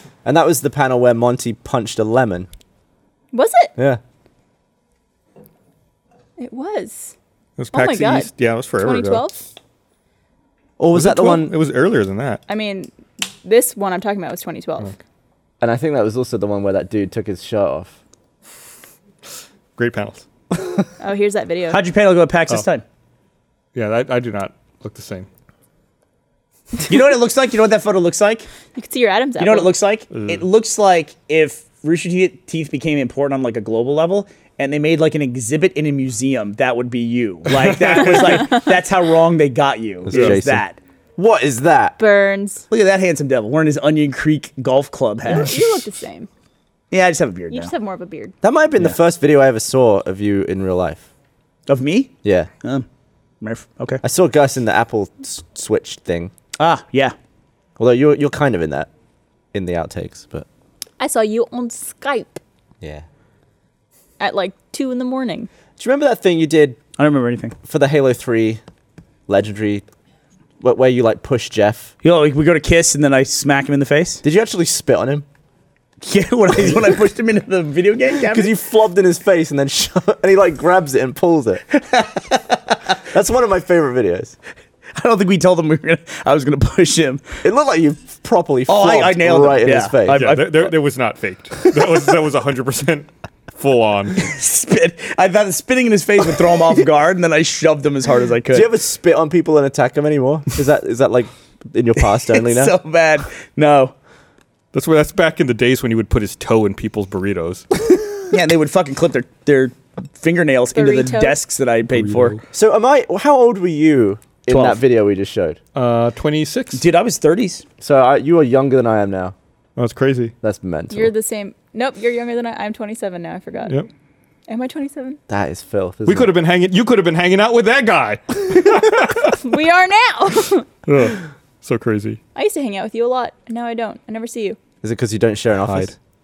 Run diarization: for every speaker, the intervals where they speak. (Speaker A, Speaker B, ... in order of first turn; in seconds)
Speaker A: 0.2-2.5, 10.8-11.5, 15.6-17.9, 40.1-40.6, 41.2-42.0, 48.4-51.0, 52.2-52.5, 54.0-56.3, 57.8-58.9, 59.5-60.5, 65.8-66.8, 67.7-68.6, 69.3-69.8, 70.6-71.9, 74.2-75.2, 78.2-81.6, 83.0-84.3, 87.4-90.4, 98.5-102.7, 112.5-115.6, 117.8-119.3, 120.4-121.1, 125.3-126.3, 134.8-135.9
Speaker B: 3.3-3.7, 6.4-7.1, 7.7-9.4, 12.5-12.9, 13.4-14.9, 21.0-21.8, 28.7-29.7, 42.0-42.6, 45.2-46.3, 47.5-48.3, 61.0-62.4, 64.2-65.5, 110.7-111.4, 120.9-123.8, 124.5-125.2, 129.2-130.7, 132.3-134.6
Speaker C: 7.6-9.2, 10.9-12.4, 19.8-20.2, 23.7-25.3, 30.1-30.4, 37.8-38.4, 40.1-40.4, 90.1-94.3, 104.7-107.7, 111.9-112.4, 115.7-116.8, 119.8-120.3, 126.0-129.4, 130.8-132.2, 135.6-135.9
Speaker D: 21.7-22.8, 26.9-28.5, 29.4-40.8, 42.7-45.7, 46.9-47.7, 51.7-52.9, 53.4-54.0, 56.6-57.1, 67.0-67.5, 72.0-74.2, 76.0-78.5, 81.8-82.8, 84.9-87.4, 88.7-90.7, 94.2-98.7, 102.2-103.9, 108.3-112.4, 114.5-114.8, 116.7-117.6